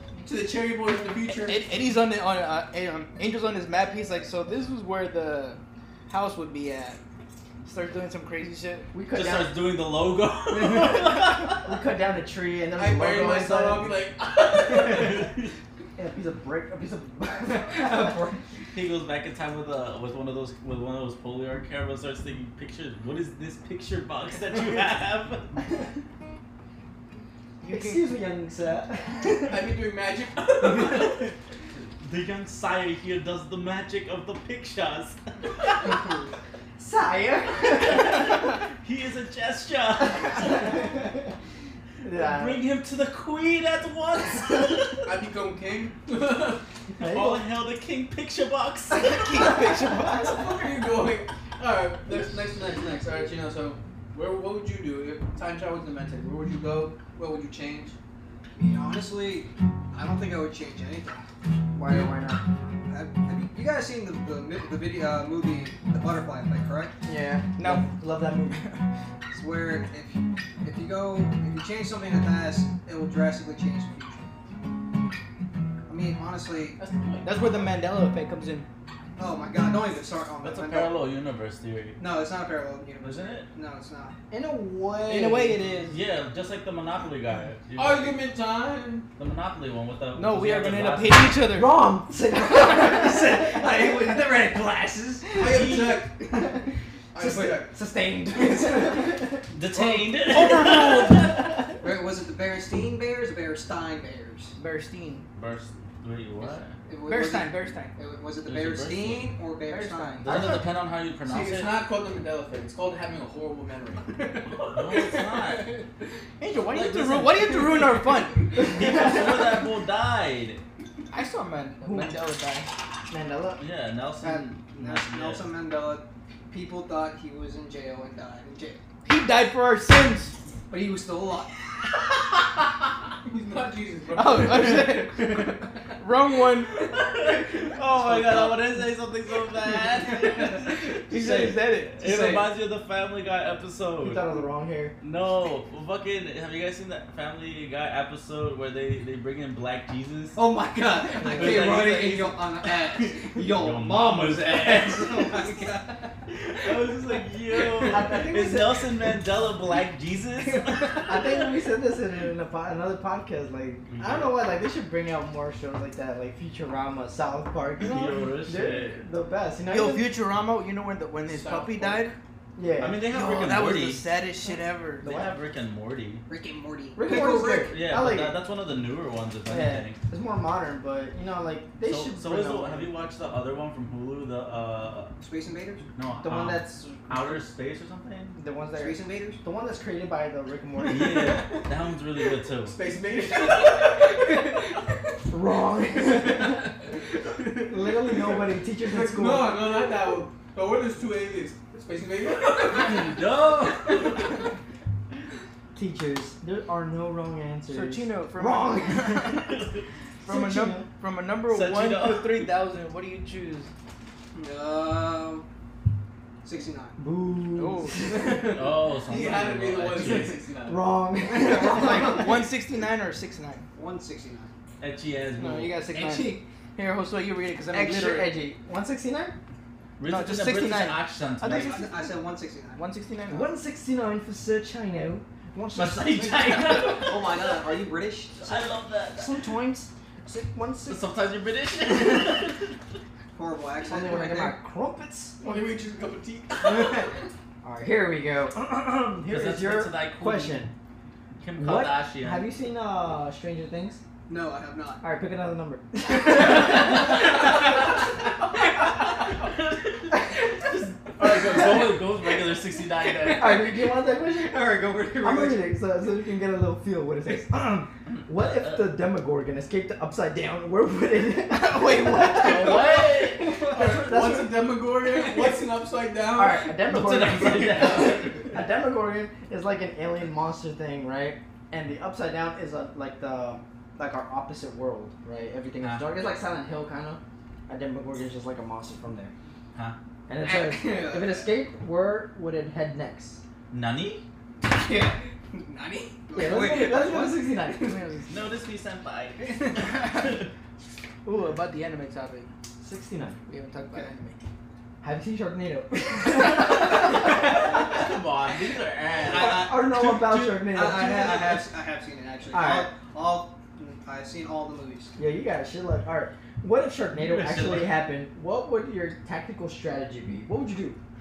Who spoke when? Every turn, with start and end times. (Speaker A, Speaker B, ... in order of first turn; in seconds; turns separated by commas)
Speaker A: 0.2-1.6, Speaker B: 1.4-7.0, Speaker B: 7.6-8.9, Speaker C: 8.9-9.6, Speaker D: 9.1-11.7, Speaker C: 10.5-14.1, Speaker A: 12.7-15.3, Speaker D: 14.6-15.5, Speaker C: 14.7-15.0, Speaker C: 15.9-18.3, Speaker E: 17.4-18.4, Speaker D: 18.7-25.6, Speaker B: 27.6-28.1, Speaker C: 27.6-29.7, Speaker A: 29.4-31.2, Speaker D: 30.7-31.3, Speaker C: 30.8-31.2, Speaker D: 32.0-36.0, Speaker C: 36.8-38.6, Speaker D: 37.7-40.9, Speaker C: 40.4-41.1, Speaker C: 42.0-42.6, Speaker D: 42.0-45.1, Speaker A: 45.0-46.6, Speaker C: 47.0-47.4, Speaker D: 47.0-49.6, Speaker B: 49.0-50.4, Speaker A: 50.1-57.9, Speaker E: 58.5-61.2, Speaker C: 61.7-62.4, Speaker E: 62.9-67.0, Speaker B: 67.0-67.9, Speaker C: 67.6-68.7, Speaker E: 69.3-74.2, Speaker E: 75.9-76.8, Speaker A: 76.8-77.7, Speaker B: 77.2-78.7, Speaker E: 79.2-81.0, Speaker D: 80.4-82.0, Speaker E: 82.0-84.1, Speaker D: 83.0-83.5, Speaker C: 84.3-85.9, Speaker B: 85.1-85.7, Speaker D: 85.9-88.3, Speaker A: 87.8-89.1, Speaker D: 89.2-91.4, Speaker B: 90.1-91.8, Speaker C: 91.5-96.6, Speaker A: 95.3-96.5, Speaker D: 95.4-95.9, Speaker A: 97.1-97.8, Speaker C: 97.2-99.4, Speaker E: 97.2-97.5, Speaker D: 99.5-101.5, Speaker C: 100.3-101.5, Speaker E: 101.8-104.5, Speaker B: 104.6-105.2, Speaker D: 105.3-106.7, Speaker E: 106.4-110.4, Speaker B: 107.0-107.9, Speaker D: 108.4-109.3, Speaker B: 109.7-110.5, Speaker D: 110.2-111.8, Speaker A: 111.2-115.8, Speaker D: 114.5-115.8, Speaker B: 116.4-118.5, Speaker D: 116.7-117.8, Speaker D: 118.5-120.6, Speaker C: 118.8-119.4, Speaker B: 121.1-122.7, Speaker C: 121.8-122.2, Speaker C: 123.1-123.6, Speaker D: 123.6-125.5, Speaker E: 124.2-128.8, Speaker B: 129.0-130.3, Speaker E: 130.7-131.5, Speaker A: 133.2-135.7, Speaker B: 134.1-136.7, Speaker D: 136.7-144.4, Speaker B: 140.6-142.0, Speaker E: 142.0-142.4, Speaker C: 144.0-144.9, Speaker D: 145.0-150.4, Speaker E: 150.3-156.1, Speaker D: 151.2-152.3, Speaker B: 151.4-152.3, Speaker D: 152.9-155.6, Speaker D: 156.5-161.4, Speaker C: 157.8-158.9, Speaker C: 161.0-170.1, Speaker D: 163.9-164.4, Speaker D: 167.8-169.0, Speaker B: 169.7-172.2, Speaker A: 171.3-172.2, Speaker C: 172.6-173.5, Speaker D: 172.8-174.0, Speaker B: 173.1-175.0, Speaker D: 175.0-176.2, Speaker C: 175.0-175.3, Speaker E: 176.3-177.8, Speaker C: 176.9-178.4, Speaker D: 177.5-180.0, Speaker C: 179.5-182.9, Speaker D: 181.8-185.1, Speaker E: 185.2-185.8, Speaker D: 185.9-188.4, Speaker C: 186.2-187.4, Speaker C: 188.3-191.4, Speaker E: 188.8-189.4, Speaker D: 190.8-192.8, Speaker A: 192.6-194.8, Speaker C: 195.3-196.7, Speaker A: 196.0-196.6, Speaker A: 197.2-198.3, Speaker C: 197.7-199.6, Speaker A: 198.8-204.1, Speaker D: 202.6-204.4, Speaker C: 205.7-209.5, Speaker B: 207.7-209.5, Speaker D: 209.4-209.8, Speaker B: 210.2-213.7, Speaker C: 210.2-210.9, Speaker D: 211.4-212.5, Speaker E: 214.3-215.4, Speaker E: 216.4-217.0, Speaker C: 217.0-218.2, Speaker B: 217.6-218.4, Speaker A: 218.1-220.8, Speaker D: 218.5-220.4, Speaker C: 220.6-222.4, Speaker E: 221.3-222.3, Speaker B: 221.6-223.6, Speaker E: 223.7-224.5, Speaker D: 224.8-225.8, Speaker B: 225.4-228.3, Speaker C: 226.0-226.3, Speaker C: 227.7-229.3, Speaker D: 230.0-231.9, Speaker B: 230.0-232.2, Speaker E: 231.5-232.8, Speaker B: 232.7-233.5, Speaker C: 233.3-236.2, Speaker D: 235.7-237.6, Speaker E: 236.4-238.7, Speaker D: 238.4-239.4, Speaker C: 239.2-241.0, Speaker D: 240.8-242.7, Speaker E: 243.3-244.6, Speaker C: 243.8-245.7, Speaker A: 245.4-247.1, Speaker C: 246.6-247.1, Speaker C: 247.6-250.7, Speaker D: 249.2-250.7, Speaker D: 251.4-252.5, Speaker C: 251.6-254.0, Speaker E: 254.3-255.0, Speaker C: 255.0-257.5, Speaker D: 259.2-263.7, Speaker C: 261.4-261.9, Speaker C: 263.3-275.5, Speaker E: 264.3-265.8, Speaker D: 268.3-268.8, Speaker B: 271.5-272.9, Speaker D: 272.3-273.6, Speaker A: 273.6-276.7, Speaker C: 276.3-289.3, Speaker D: 276.8-278.5, Speaker D: 285.8-286.1, Speaker C: 290.3-293.4, Speaker E: 290.4-291.5, Speaker D: 293.7-294.2, Speaker C: 294.8-295.1, Speaker E: 295.5-298.0, Speaker C: 296.3-298.0, Speaker B: 297.7-298.5, Speaker D: 298.3-300.5, Speaker B: 301.2-302.5, Speaker C: 302.8-303.4, Speaker B: 303.5-304.4, Speaker C: 305.0-307.5, Speaker D: 306.7-310.6, Speaker E: 309.2-309.9, Speaker C: 309.3-311.7, Speaker E: 310.6-315.2, Speaker C: 312.5-312.9, Speaker C: 315.2-321.0, Speaker D: 317.1-318.0